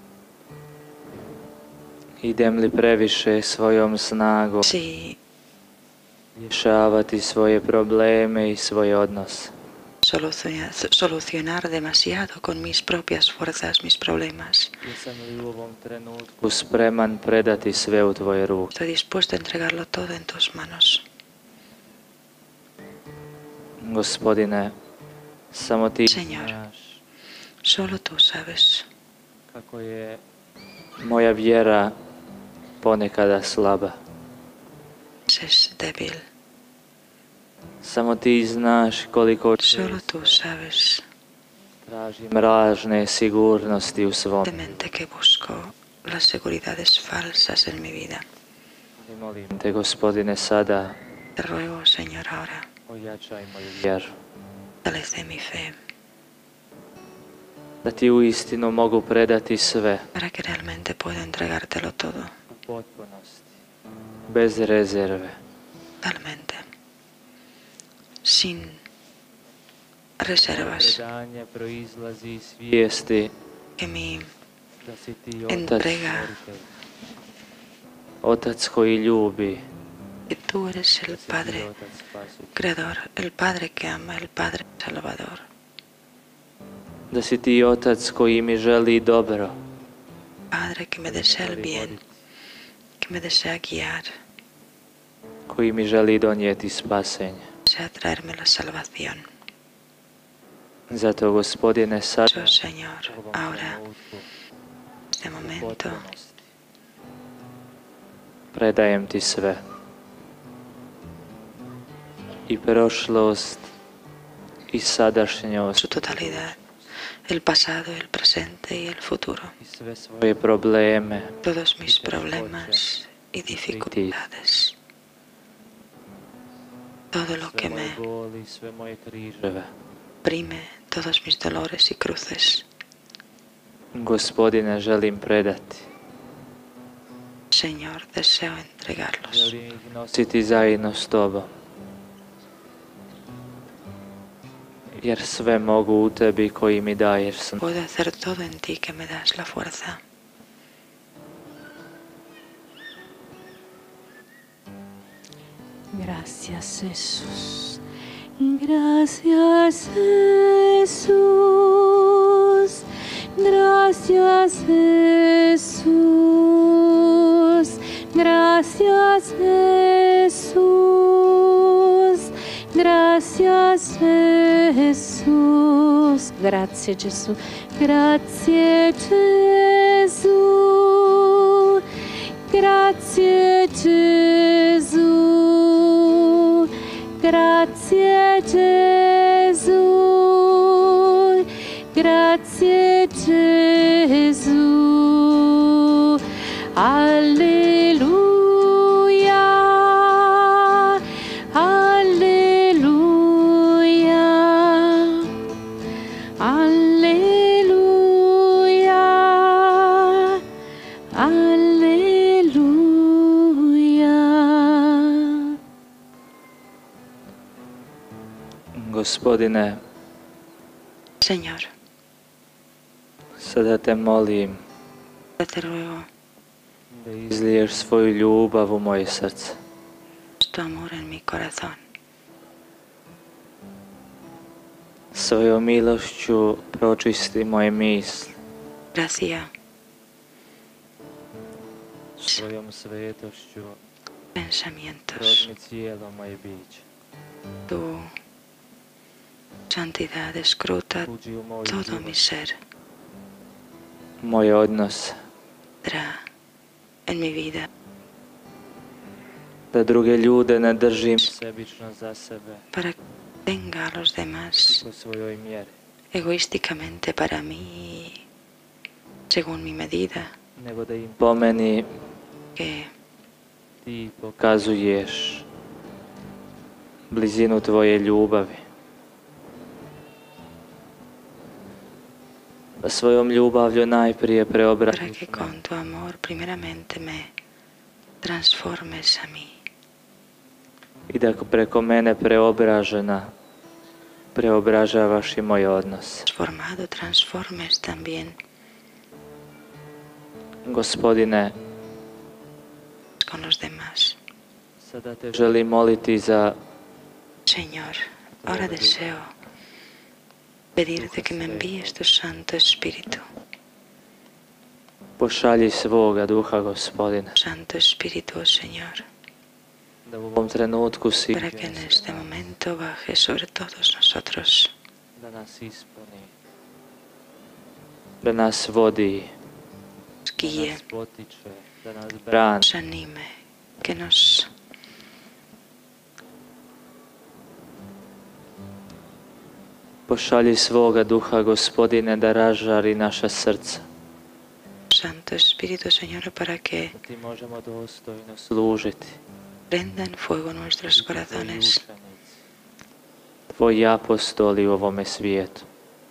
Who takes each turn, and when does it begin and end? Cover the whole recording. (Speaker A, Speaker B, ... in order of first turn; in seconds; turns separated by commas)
Speaker A: 2.2-4.8, Speaker B: 4.6-5.2, Speaker A: 6.4-9.5, Speaker B: 10.0-14.8, Speaker A: 14.8-18.7, Speaker B: 18.7-21.1, Speaker A: 23.8-24.8, Speaker A: 25.5-27.0, Speaker B: 26.1-26.6, Speaker B: 27.6-28.9, Speaker A: 29.5-30.2, Speaker A: 31.0-31.9, Speaker A: 32.8-34.0, Speaker B: 35.3-36.2, Speaker A: 37.8-40.4, Speaker B: 39.6-41.0, Speaker A: 41.8-44.9, Speaker B: 44.4-48.2, Speaker A: 49.0-51.0, Speaker B: 51.4-52.7, Speaker A: 52.9-54.1, Speaker B: 54.8-55.8, Speaker A: 57.8-60.1, Speaker B: 60.1-62.3, Speaker A: 62.5-63.5, Speaker A: 64.3-65.4, Speaker B: 66.0-66.6, Speaker B: 68.2-68.8, Speaker B: 70.2-71.0, Speaker A: 70.4-73.3, Speaker B: 73.8-74.3, Speaker A: 74.8-76.7, Speaker B: 75.5-76.4, Speaker A: 78.2-79.6, Speaker B: 80.3-81.7, Speaker A: 81.1-82.5, Speaker B: 82.5-85.5, Speaker A: 87.1-89.5, Speaker B: 90.5-92.0, Speaker A: 91.1-92.1, Speaker B: 93.0-94.1, Speaker A: 95.5-97.5, Speaker B: 97.6-99.2, Speaker A: 100.9-104.3, Speaker B: 102.2-103.8, Speaker B: 105.2-106.1, Speaker A: 105.4-106.4, Speaker A: 108.5-109.6, Speaker A: 112.5-113.6, Speaker A: 114.7-116.8, Speaker B: 115.7-116.6, Speaker B: 117.3-119.5, Speaker A: 119.6-122.9, Speaker B: 121.4-124.8, Speaker A: 123.6-124.2, Speaker B: 127.1-128.0, Speaker A: 127.3-129.7, Speaker B: 130.2-132.7, Speaker A: 133.9-135.9, Speaker B: 137.5-139.5, Speaker A: 139.3-141.5, Speaker A: 144.9-147.6, Speaker B: 147.6-150.0, Speaker C: 155.9-157.8, Speaker C: 158.4-181.9, Speaker C: 182.5-205.6, Speaker C: 206.4-210.4, Speaker C: 211.1-215.6, Speaker A: 218.7-219.8, Speaker B: 221.2-221.7, Speaker A: 223.4-224.6, Speaker B: 225.4-226.1, Speaker A: 226.9-229.6, Speaker B: 230.4-231.8, Speaker A: 235.1-238.3, Speaker B: 238.9-239.5, Speaker A: 242.2-243.8, Speaker B: 244.3-245.5, Speaker A: 245.1-246.8, Speaker B: 247.7-248.1, Speaker B: 249.7-251.1, Speaker A: 251.0-252.2, Speaker B: 251.7-252.6, Speaker A: 254.2-255.1, Speaker B: 255.8-256.2, Speaker B: 257.1-257.7, Speaker A: 259.7-262.6, Speaker B: 262.7-264.8, Speaker A: 264.7-265.7, Speaker B: 266.1-268.2, Speaker B: 269.3-270.3, Speaker A: 270.6-271.9, Speaker B: 272.6-272.9, Speaker A: 273.8-275.5, Speaker A: 277.1-278.6, Speaker A: 282.8-285.6, Speaker B: 284.9-287.3, Speaker B: 288.2-289.5, Speaker A: 291.1-293.3, Speaker A: 294.4-296.3, Speaker B: 296.2-298.4, Speaker A: 300.6-301.6, Speaker B: 303.2-304.2, Speaker A: 304.8-306.6, Speaker B: 307.5-309.3, Speaker A: 308.4-309.0, Speaker B: 310.8-313.2, Speaker A: 310.9-312.0, Speaker A: 315.2-317.4, Speaker B: 317.4-319.1, Speaker A: 320.0-322.4, Speaker B: 321.3-324.7, Speaker A: 325.1-326.3, Speaker A: 328.2-329.3, Speaker B: 330.2-330.8, Speaker A: 330.4-332.7, Speaker B: 332.6-334.5, Speaker A: 340.1-343.8, Speaker B: 344.9-346.9, Speaker A: 346.9-349.2, Speaker B: 349.7-351.8, Speaker A: 350.9-352.4, Speaker A: 353.5-355.6